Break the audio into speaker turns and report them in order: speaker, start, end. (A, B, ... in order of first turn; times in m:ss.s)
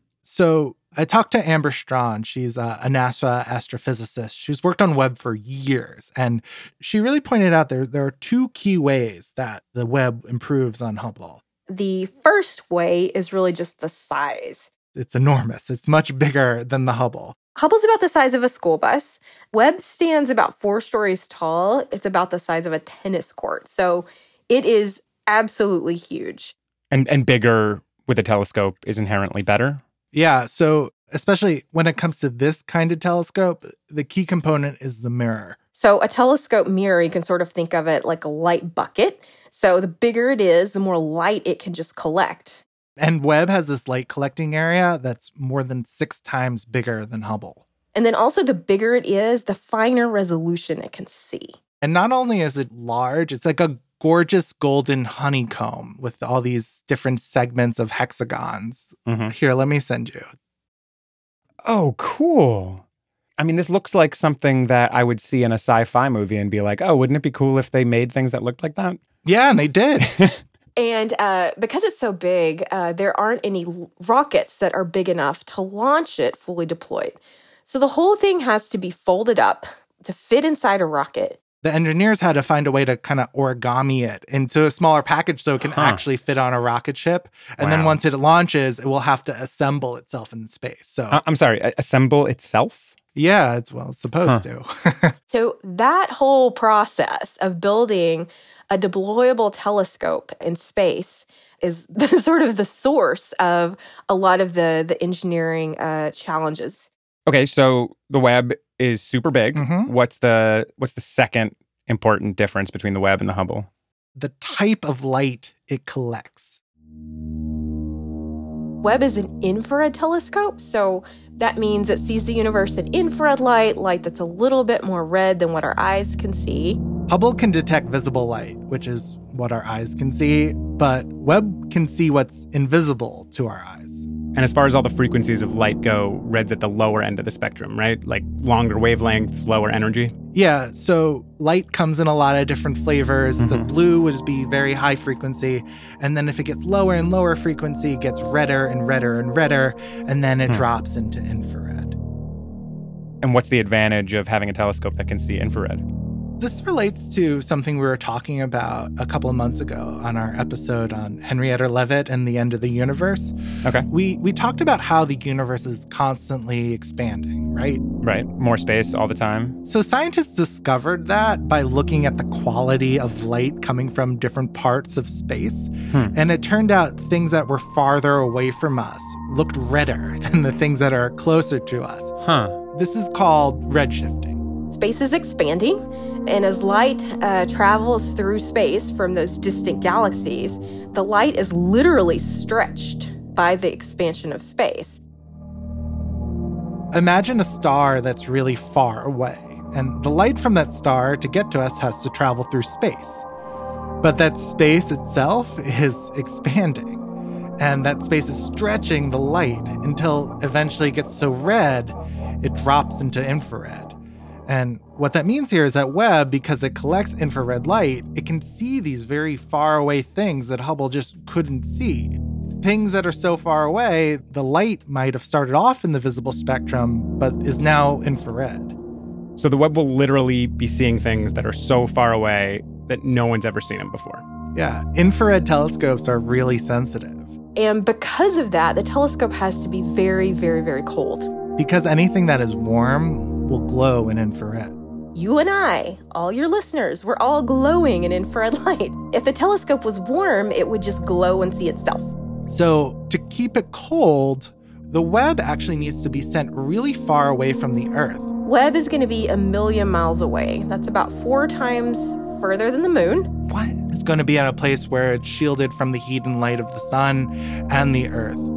0:00.2-0:11.4 A
0:11.7-0:14.7 B
0:14.9-0:17.4 A
0:17.5-0:26.5 B
0:26.9-0:29.8 C
0:30.1-0:35.6 A
0:35.8-0:42.6 B
0:43.0-0:47.6 A
0:47.9-0:51.6 B
0:51.8-1:00.3 A
0:59.0-0:59.3 C
1:01.6-1:02.8 C
1:03.4-1:09.0 C
1:09.2-1:10.1 A
1:10.1-1:10.4 C
1:10.8-1:21.4 B
1:21.6-1:31.2 A
1:25.6-1:26.0 C
1:27.6-1:28.0 C
1:31.1-1:32.9 C
1:33.1-1:35.1 A
1:35.3-1:46.9 B
1:47.3-1:53.7 C
1:49.5-1:49.9 A
1:54.2-1:56.6 A
1:58.8-2:06.8 B
2:07.1-2:14.1 A
2:14.3-2:20.1 C
2:20.3-2:32.0 A
2:23.4-2:23.7 C
2:33.2-2:35.8 C
2:36.4-2:43.3 A
2:43.9-2:47.8 A
2:48.0-2:49.6 C
2:49.6-3:02.1 A
3:02.2-3:02.6 C
3:02.7-3:04.4 A
3:04.7-3:15.0 B
3:16.9-3:23.2 A
3:24.0-3:27.0 A
3:27.6-3:34.0 A
3:34.5-3:48.8 A
3:49.4-3:54.2 C
3:54.5-3:57.3 A
3:57.6-4:01.3 B
4:01.6-4:04.7 A
4:05.1-4:12.1 B
4:12.5-4:18.2 A
4:18.4-4:23.3 B
4:23.5-4:28.5 A